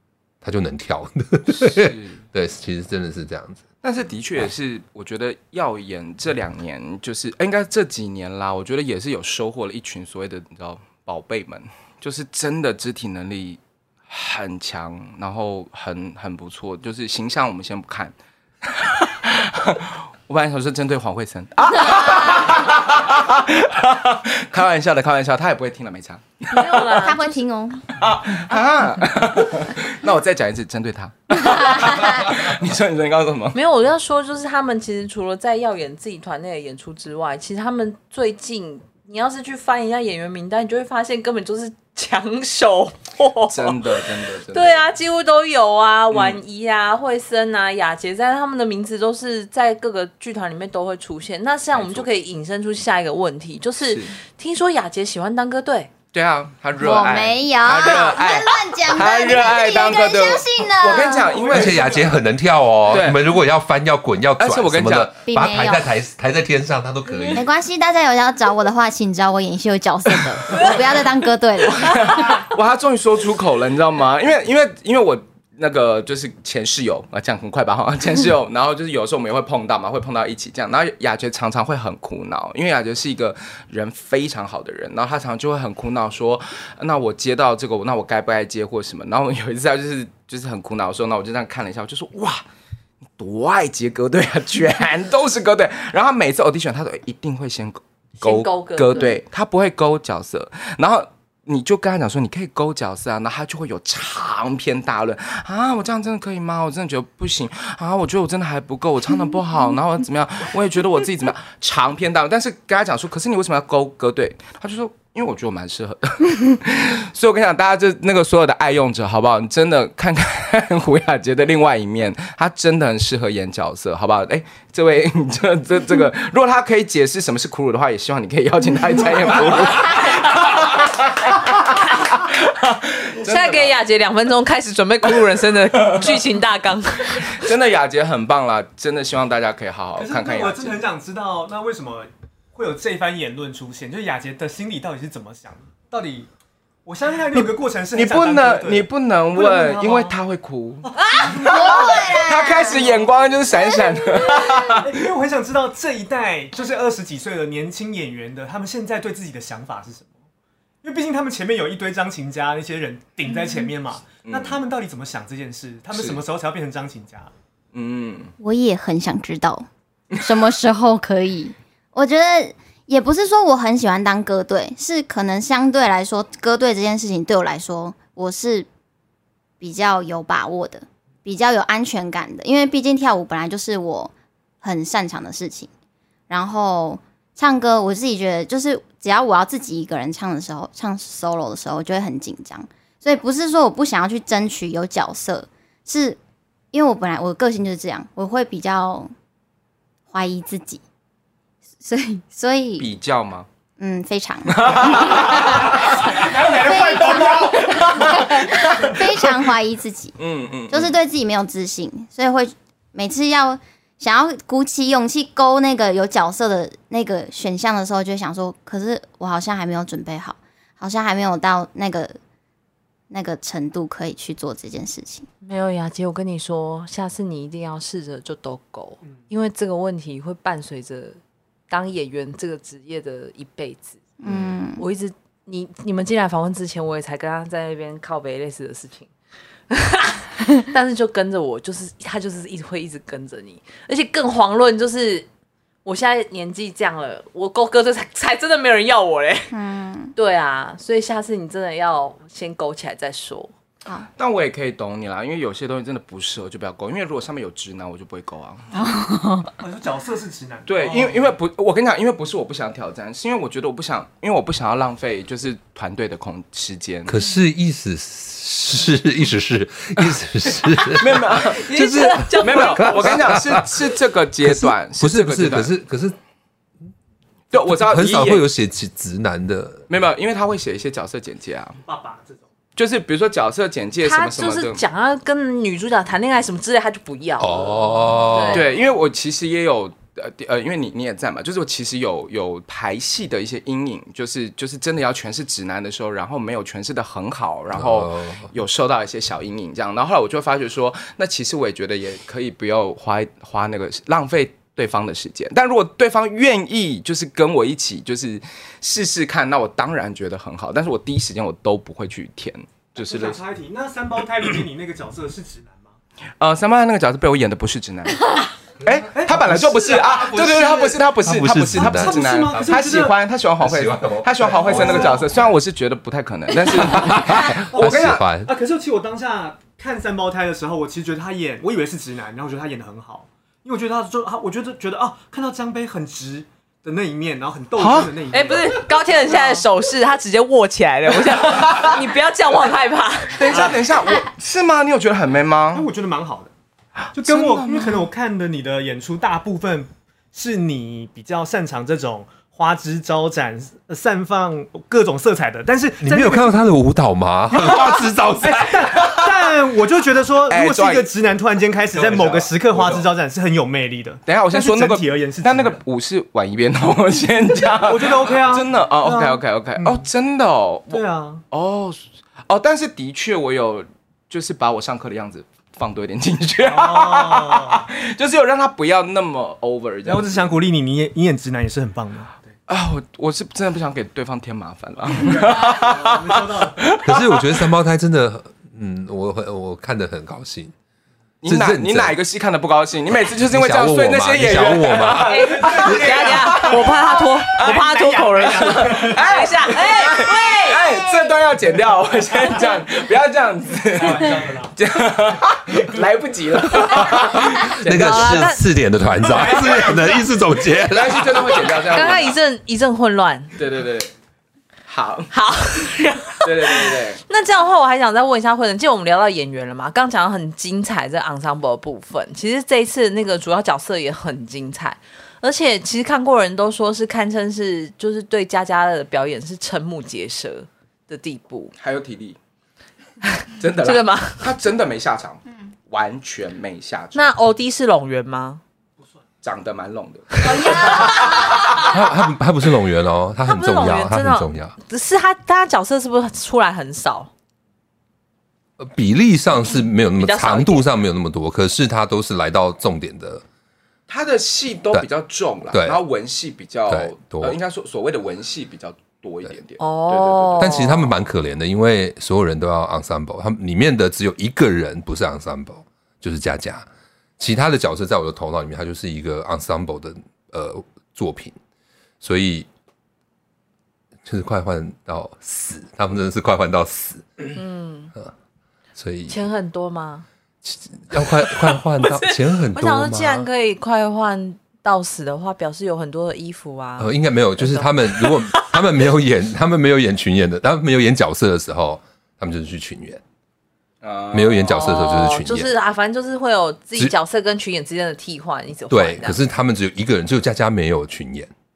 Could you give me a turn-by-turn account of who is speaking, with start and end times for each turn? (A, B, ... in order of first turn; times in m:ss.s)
0:00.4-0:03.6 A
0:01.5-0:02.2 B
0:03.8-0:26.8 B
0:21.8-0:22.5 C
0:26.5-0:27.4 D
0:26.8-0:27.8 C
0:27.9-0:33.6 B
0:31.3-0:32.4 C
0:33.5-0:55.9 D
0:43.5-0:44.9 B
0:46.1-0:46.4 B
0:51.8-0:52.1 B
0:53.8-0:54.1 B
0:56.1-1:02.0 B
0:56.8-1:01.5 C
1:01.3-1:02.1 E
1:01.5-1:07.5 A
1:02.9-1:03.2 B
1:04.4-1:05.1 B
1:05.3-1:05.8 C
1:07.3-1:12.4 C
1:11.7-1:32.4 B
1:33.2-2:13.7 B
1:38.2-1:39.2 D
2:13.2-2:17.5 D
2:15.7-2:16.2 B
2:17.1-2:20.8 B
2:20.0-2:26.3 E
2:26.8-2:30.1 E
2:27.4-2:34.9 B
2:30.8-2:31.7 E
2:31.2-2:33.0 C
2:34.8-2:40.1 E
2:40.8-2:47.3 E
2:44.2-2:44.6 B
2:45.9-2:46.2 B
2:47.7-2:48.3 B
2:48.4-2:58.7 C
2:59.6-3:05.7 C
3:06.3-3:16.2 C
3:16.7-3:19.1 C
3:20.1-3:20.8 C
3:21.8-3:22.9 C
3:22.8-3:23.5 B
3:23.8-3:30.2 C
3:24.5-3:25.8 B
3:25.2-3:28.8 E
3:27.1-3:28.9 B
3:30.2-3:30.9 B
3:30.7-3:42.2 C
3:43.1-3:45.3 C
3:45.4-3:51.2 D
3:51.7-3:54.0 D
3:54.2-3:54.8 C
3:54.8-3:59.1 D
3:59.7-4:05.3 D
4:05.8-4:09.5 D
4:09.5-4:10.1 C
4:10.2-4:13.5 D
4:14.2-4:18.7 B
4:18.7-4:19.5 C
4:19.6-4:21.3 E
4:20.7-4:27.2 B
4:27.1-4:33.9 A
4:30.7-4:31.7 B
4:31.5-4:33.2 D
4:32.4-4:35.7 B
4:34.4-4:36.2 A
4:37.5-4:38.4 B
4:37.5-4:39.9 A
4:39.9-4:41.8 B
4:41.9-4:42.4 E
4:42.8-4:44.8 B
4:44.0-4:48.7 D
4:47.4-4:48.7 A
4:48.5-5:13.4 B
4:57.7-4:58.5 A
5:13.0-5:16.0 E
5:16.4-5:18.3 B
5:18.8-5:28.2 B
5:19.1-5:20.9 E
5:21.2-5:22.7 A
5:21.8-5:23.2 E
5:23.6-5:25.2 A
5:24.4-5:25.3 E
5:26.7-5:28.5 A
5:27.6-5:39.6 E
5:37.8-5:38.1 B
5:38.3-5:43.7 D
5:41.4-5:42.0 B
5:43.4-5:45.9 B
5:43.5-5:43.8 E
5:45.7-5:46.5 E
5:47.1-5:56.6 E
5:47.2-5:48.1 B
5:56.0-5:59.4 A
5:58.4-6:05.8 E
6:00.5-6:01.1 B
6:02.0-6:03.0 B
6:04.3-6:20.5 B
6:07.7-6:10.1 E
6:10.9-6:11.4 E
6:16.6-6:17.9 E
6:20.1-6:22.4 E
6:22.7-6:27.6 B
6:25.2-6:27.0 E
6:27.0-6:30.7 A
6:31.4-6:36.9 B
6:31.5-6:32.2 A
6:33.4-6:35.5 A
6:34.9-6:40.0 E
6:35.3-6:40.9 D
6:38.4-6:48.5 B
6:40.8-6:41.4 C
6:43.8-6:44.8 E
6:46.9-6:51.6 A
6:47.9-6:48.7 D
6:49.2-6:50.2 E
6:50.8-6:52.4 B
6:51.9-6:53.6 D
6:53.6-6:54.1 B
6:54.9-6:55.3 B
6:55.3-7:11.7 D
6:56.4-6:57.2 B
7:11.8-7:12.4 B
7:13.2-7:14.5 D
7:13.6-7:17.3 B
7:17.1-7:18.6 D
7:19.4-7:22.0 B
7:20.4-7:21.9 D
7:20.5-7:21.3 C
7:21.8-7:24.8 A
7:23.5-7:27.3 D
7:28.8-7:33.4 A
7:30.2-7:30.9 D
7:34.1-7:40.8 B
7:35.7-7:36.0 A
7:36.9-7:37.6 A
7:39.8-7:41.1 D
7:40.6-7:46.9 A
7:47.4-7:51.6 A
7:52.2-7:52.7 A
7:54.2-7:57.6 A
7:57.6-7:58.1 D
7:59.0-7:59.4 A
7:59.3-8:00.3 D
8:00.6-8:03.5 A
8:02.0-8:08.8 D
8:07.0-8:13.2 A
8:14.0-8:15.1 B
8:14.3-8:15.7 A
8:14.7-8:19.4 D
8:18.9-8:21.5 A